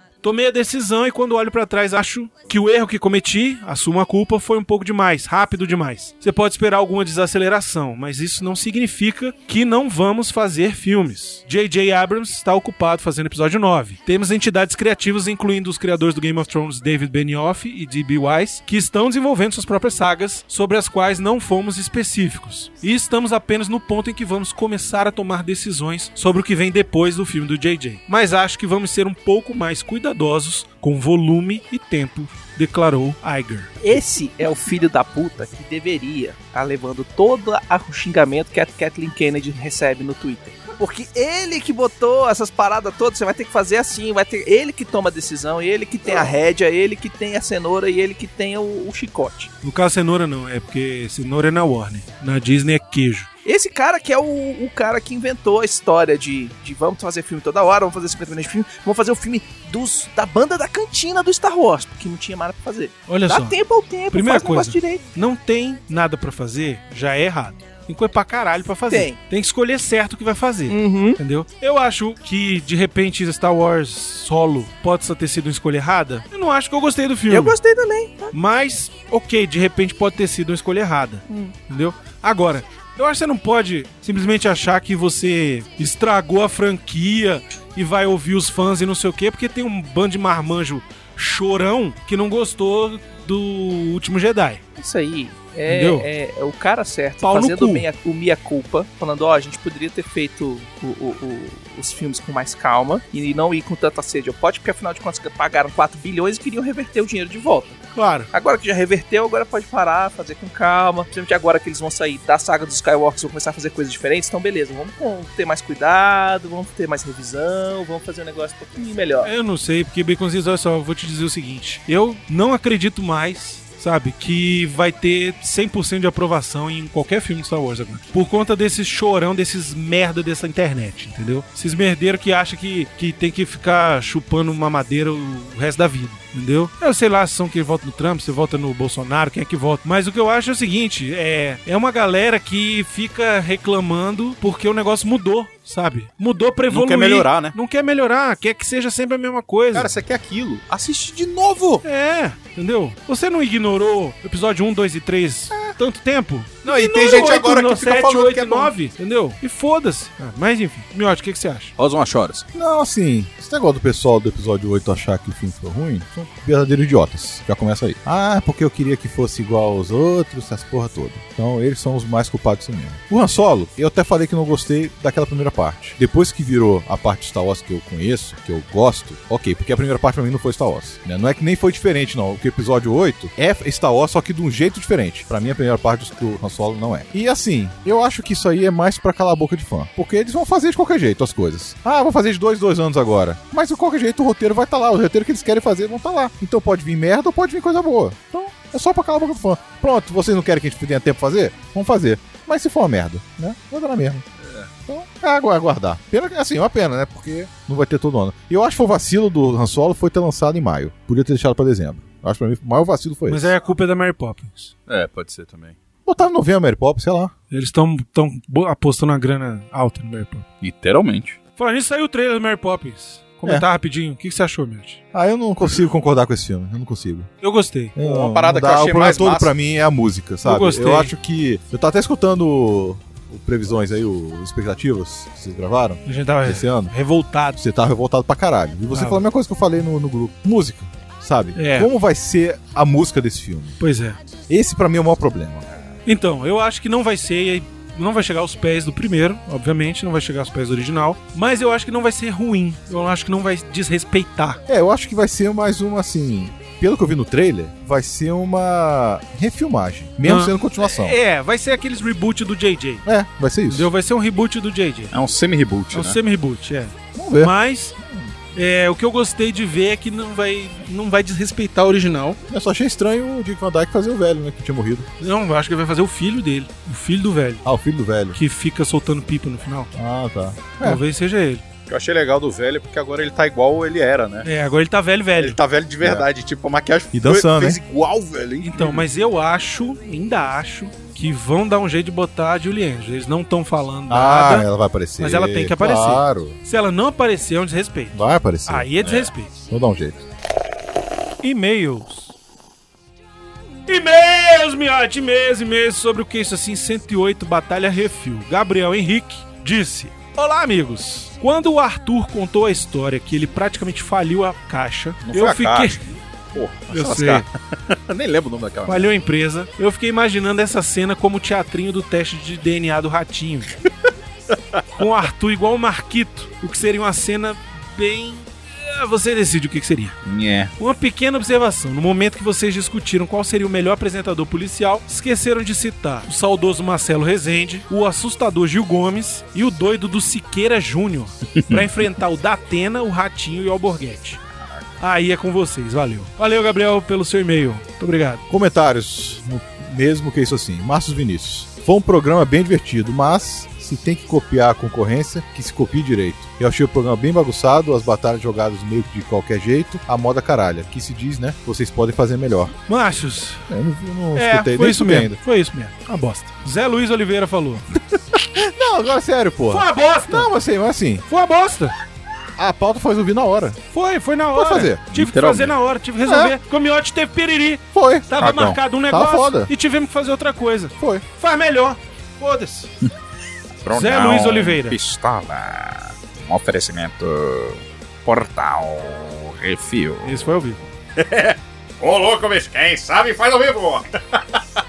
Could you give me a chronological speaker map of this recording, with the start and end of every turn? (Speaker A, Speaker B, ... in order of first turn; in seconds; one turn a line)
Speaker A: 0.2-33.7
Speaker B: 33.8-49.5
Speaker A: 49.6-53.3
Speaker B: 53.4-65.0
Speaker A: 63.1-63.5
Speaker A: 64.1-77.6
Speaker B: 68.9-69.2
Speaker B: 70.7-71.2
Speaker B: 77.3-78.3
Speaker A: 78.3-94.6
Speaker B: 81.3-81.5
Speaker B: 94.8-107.8
Speaker A: 95.7-96.1
Speaker A: 97.2-97.8
Speaker A: 107.9-108.3
Speaker B: 108.3-119.3
Speaker A: 119.2-149.9
Speaker C: 146.7-147.6
Speaker C: 149.7-151.8
Speaker A: 151.8-161.7
Speaker C: 156.6-158.7
Speaker C: 161.8-162.4
Speaker D: 162.5-204.2
Speaker C: 167.6-168.0
Speaker D: 204.8-213.5
Speaker A: 213.3-214.7
Speaker C: 214.9-215.8
Speaker D: 216.1-217.3
Speaker A: 217.5-220.4
Speaker C: 220.6-221.4
Speaker A: 221.6-225.0
Speaker D: 225.1-227.3
Speaker A: 227.4-227.9
Speaker D: 227.9-236.9
Speaker C: 228.0-229.5
Speaker A: 230.4-231.1
Speaker A: 236.0-237.6
Speaker D: 237.6-243.8
Speaker A: 238.9-239.2
Speaker A: 241.5-241.9
Speaker A: 243.8-244.2
Speaker D: 244.5-245.7
Speaker A: 246.1-254.6
Speaker D: 254.7-261.2
Speaker A: 260.2-263.0
Speaker D: 263.0-263.9
Speaker A: 263.7-265.1
Speaker C: 265.1-266.2
Speaker A: 265.9-268.0
Speaker D: 267.1-268.3
Speaker A: 268.5-272.4
Speaker D: 272.5-275.1
Speaker A: 275.2-277.6
Speaker D: 277.6-278.4
Speaker A: 278.3-279.9
Speaker D: 279.9-281.0
Speaker A: 280.8-281.6
Speaker C: 281.9-284.5
Speaker A: 284.4-285.6
Speaker C: 285.4-289.0
Speaker D: 286.0-286.2
Speaker D: 287.1-287.8
Speaker A: 288.6-299.5
Speaker D: 294.1-296.6
Speaker D: 298.1-300.2
Speaker A: 301.4-302.3
Speaker A: 303.9-316.0
Speaker C: 315.2-316.0
Speaker C: 316.5-319.1
Speaker A: 316.9-317.4
Speaker A: 318.9-323.8
Speaker A: 324.9-330.1
Speaker C: 330.2-330.7
Speaker A: 330.8-344.4
Speaker A: 345.0-348.4
Speaker D: 348.5-362.7
Speaker A: 362.9-363.7
Speaker D: 363.7-365.4
Speaker A: 364.3-367.9
Speaker D: 368.5-371.2
Speaker A: 369.7-370.5
Speaker A: 371.3-371.9
Speaker D: 372.6-373.8
Speaker A: 373.9-382.9
Speaker D: 374.5-375.0
Speaker C: 375.1-375.7
Speaker D: 376.2-376.5
Speaker D: 377.9-379.7
Speaker C: 378.4-378.8
Speaker D: 381.0-381.2
Speaker C: 383.8-390.5
Speaker A: 383.9-385.0
Speaker A: 390.2-390.8
Speaker C: 391.1-394.6